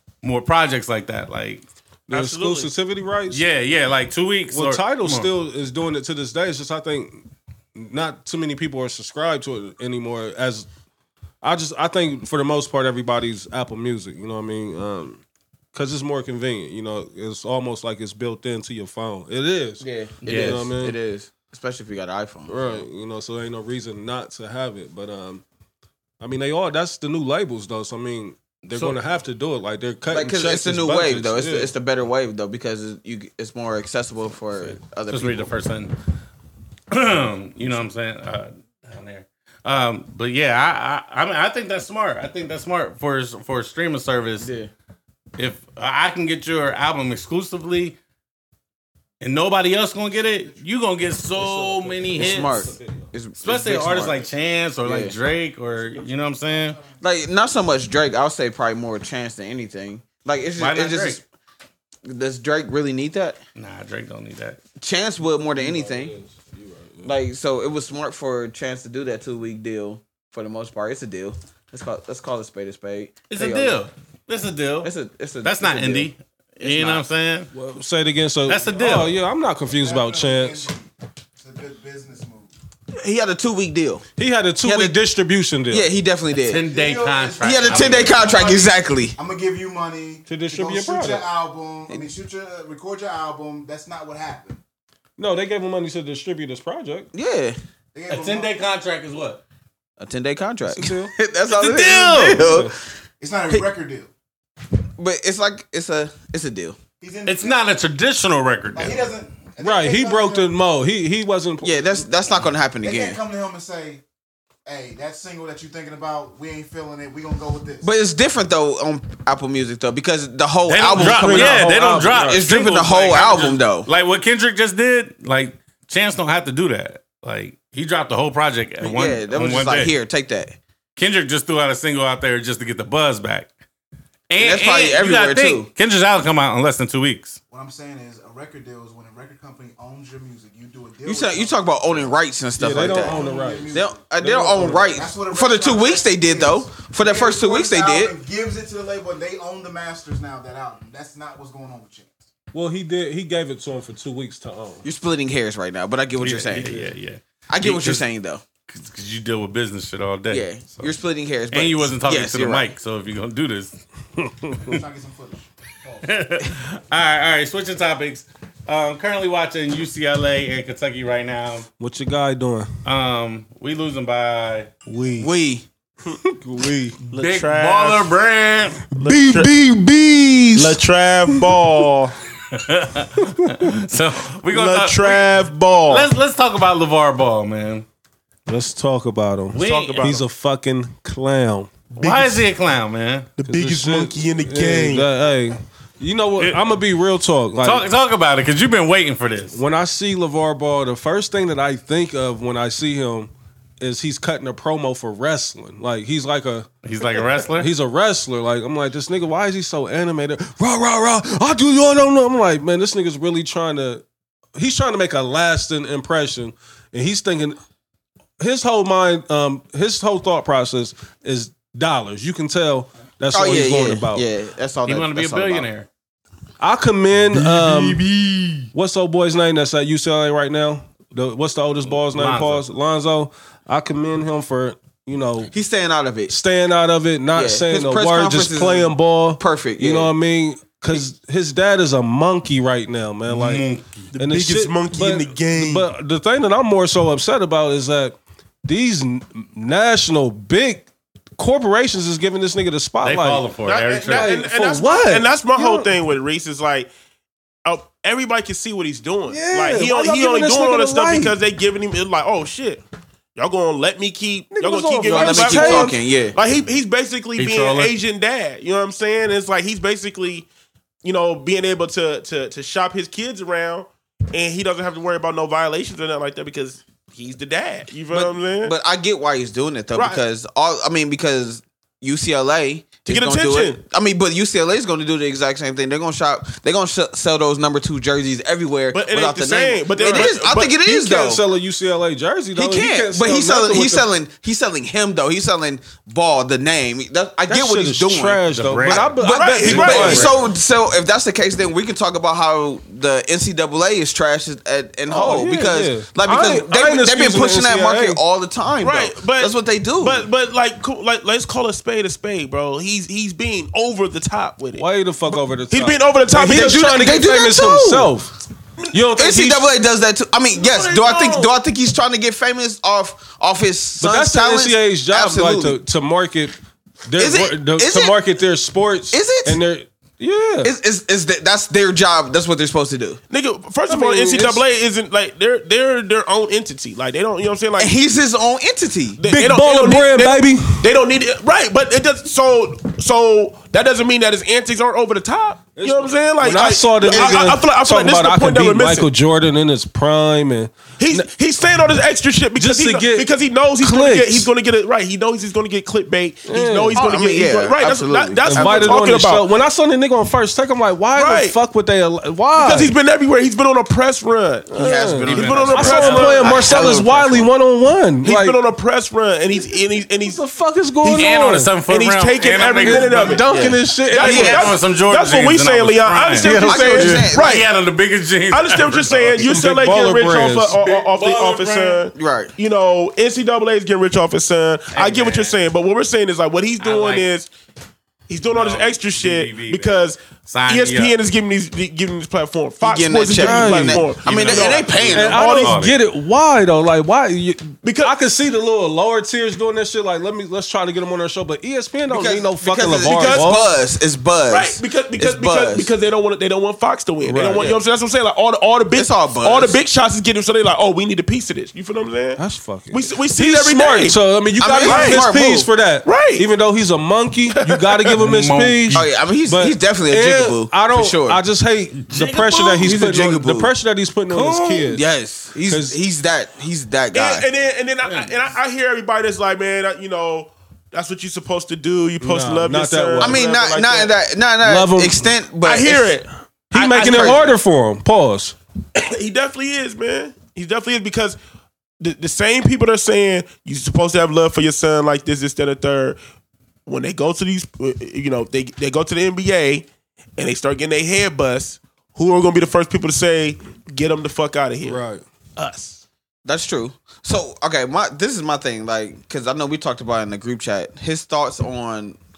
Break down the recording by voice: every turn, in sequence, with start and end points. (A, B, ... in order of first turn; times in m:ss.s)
0:00.2-0:01.6 A
0:02.1-0:03.4 B
0:02.1-0:02.7 C
0:03.3-0:05.3 A
0:04.5-0:10.7 B
0:11.4-0:15.2 B
0:15.7-0:21.0 B
0:19.8-0:22.8 D
0:20.2-0:20.6 A
0:22.5-0:25.4 B
0:26.2-0:31.7 B
0:28.7-0:29.0 A
0:30.1-0:35.5 D
0:34.6-0:36.0 A
0:36.9-0:44.5 A
0:44.4-0:44.7 D
0:45.4-0:48.0 A
0:49.2-0:52.7 A
0:50.1-0:50.6 E
0:51.3-0:53.1 B
0:52.1-0:54.3 D
0:53.4-0:56.8 A
0:54.8-0:55.1 D
0:55.9-0:57.0 E
0:57.0-1:01.2 D
1:00.6-1:01.2 A
1:02.0-1:03.4 D
1:03.6-1:04.6 A
1:04.8-1:06.1 D
1:05.5-1:07.2 B
1:07.0-1:13.8 D
1:13.3-1:17.5 A
1:14.8-1:16.1 D
1:16.6-1:17.0 D
1:17.5-1:20.7 B
1:18.5-1:19.2 A
1:19.6-1:22.5 E
1:22.9-1:24.0 D
1:24.2-1:25.9 B
1:24.6-1:25.0 D
1:25.7-1:26.6 D
1:26.4-1:28.2 A
1:26.6-1:34.6 E
1:27.4-1:29.2 D
1:30.3-1:31.2 B
1:35.2-1:37.1 B
1:37.1-1:37.6 D
1:37.9-1:38.5 E
1:38.1-1:39.4 A
1:40.0-1:42.7 D
1:40.6-1:42.7 B
1:43.2-1:44.1 E
1:45.0-1:46.8 D
1:47.0-1:47.6 E
1:47.2-1:49.0 A
1:48.7-1:50.5 E
1:49.6-1:52.0 B
1:51.6-1:53.2 D
1:52.8-1:54.0 E
1:54.6-1:57.9 E
1:57.8-2:03.9 D
2:00.6-2:09.9 A
2:00.9-2:02.4 B
2:08.8-2:10.6 D
2:11.0-2:13.5 A
2:14.3-2:17.4 A
2:14.4-2:15.7 D
2:17.5-2:22.2 E
2:21.0-2:23.2 D
2:22.6-2:25.0 B
2:22.7-2:24.1 E
2:23.7-2:28.2 D
2:24.6-2:32.2 E
2:32.5-2:34.8 B
2:34.8-2:36.9 D
2:36.2-2:38.0 A
2:37.5-2:38.4 D
2:38.7-2:40.9 A
2:40.3-2:42.7 D
2:41.5-2:43.8 A
2:44.2-2:44.5 B
2:44.6-2:46.1 E
2:46.0-2:51.7 A
2:51.8-2:52.7 B
2:52.8-2:54.7 A
2:54.9-2:55.3 B
2:55.2-2:55.6 D
2:56.0-2:57.0 B
2:57.1-2:58.1 C
2:57.1-2:58.8 A
2:58.9-2:59.5 C
2:59.0-3:00.8 B
3:00.5-3:02.2 C
3:01.3-3:01.6 B
3:02.5-3:05.3 A
3:03.2-3:03.7 B
3:04.5-3:06.1 C
3:05.9-3:07.8 A
3:08.4-3:11.8 B
3:09.5-3:10.1 A
3:09.6-3:10.2 C
3:12.0-3:12.4 C
3:12.0-3:13.3 A
3:13.4-3:15.1 C
3:13.4-3:17.8 B
3:17.6-3:19.6 A
3:19.5-3:26.7 B
3:26.8-3:27.7 A
3:27.4-3:34.0 B
3:34.5-3:37.6 B
3:38.4-3:44.2 B
3:43.3-3:45.7 D
3:44.9-3:45.9 A
3:46.6-3:48.0 B
3:47.3-3:48.7 A
3:48.7-3:55.5 B
3:51.9-3:52.6 A
3:55.5-3:56.3 D
3:56.3-4:03.6 B
3:57.3-4:00.1 D
4:03.3-4:04.1 A
4:04.1-4:05.9 C
4:04.2-4:13.4 B
4:13.0-4:14.3 A
4:13.6-4:16.9 C
4:14.1-4:16.0 B
4:17.6-4:22.8 C
4:19.3-4:21.4 B
4:23.3-4:30.5 C
4:24.5-4:26.0 B
4:25.1-4:26.4 D
4:27.4-4:27.9 A
4:31.0-4:38.7 C
4:38.1-4:51.4 D
4:39.9-4:40.2 C
4:43.0-4:43.8 C
4:48.9-4:50.8 C
4:50.0-4:50.3 B
4:50.8-4:54.1 B
4:52.5-5:10.2 D
4:57.5-5:00.4 B
4:58.5-4:59.0 A
4:59.0-5:00.4 C
4:59.7-5:00.2 A
5:05.1-5:08.2 B
5:08.8-5:17.2 C
5:14.7-5:18.3 B
5:16.5-5:18.1 D
5:18.9-5:19.7 B
5:19.1-5:25.8 D
5:20.5-5:21.6 C
5:24.0-5:26.5 B
5:27.0-5:30.7 B
5:27.2-5:28.2 D
5:29.1-5:29.6 D
5:30.6-5:33.2 D
5:33.3-5:38.0 C
5:33.9-5:34.6 B
5:37.8-5:39.2 D
5:39.2-5:49.1 C
5:39.3-5:40.9 B
5:45.8-5:51.3 B
5:47.0-5:47.5 D
5:51.0-5:59.4 C
5:52.6-5:54.5 B
5:56.5-5:57.0 B
5:56.9-5:59.1 D
5:58.4-6:02.9 B
6:01.1-6:01.6 C
6:02.6-6:04.7 C
6:04.7-6:08.6 B
6:04.7-6:07.5 D
6:05.2-6:06.9 C
6:05.2-6:06.6 A
6:08.2-6:10.4 C
6:10.2-6:11.7 B
6:11.0-6:13.4 A
6:11.9-6:17.7 C
6:12.8-6:14.7 B
6:13.5-6:14.8 D
6:14.2-6:19.6 A
6:16.4-6:17.3 B
6:16.7-6:17.6 D
6:18.5-6:27.5 C
6:19.3-6:22.0 B
6:21.2-6:21.6 A
6:22.1-6:22.5 D
6:24.9-6:25.6 A
6:26.8-6:27.2 A
6:28.3-6:35.8 C
6:28.5-6:31.2 A
6:32.8-6:35.6 D
6:33.3-6:34.0 B
6:34.2-6:36.0 A
6:35.1-6:43.7 B
6:37.8-6:38.2 C
6:42.1-6:45.9 D
6:42.9-6:43.6 C
6:44.5-6:55.2 C
6:47.2-6:47.8 B
6:48.9-6:49.8 D
6:52.4-7:05.1 B
6:54.6-6:55.7 D
6:56.0-6:56.5 C
6:57.5-6:58.2 C
6:58.2-6:59.1 A
6:58.9-7:01.4 D
7:02.1-7:02.9 C
7:02.8-7:03.7 D
7:04.3-7:07.5 D
7:05.6-7:06.0 B
7:07.1-7:14.1 C
7:08.0-7:08.5 A
7:12.2-7:13.4 B
7:13.2-7:16.1 D
7:14.6-7:15.3 B
7:15.6-7:17.5 C
7:16.7-7:18.6 B
7:16.9-7:17.4 D
7:18.9-7:21.4 C
7:22.0-7:26.2 C
7:26.8-7:35.0 C
7:34.8-7:35.2 B
7:35.6-7:36.0 C
7:36.4-7:42.2 D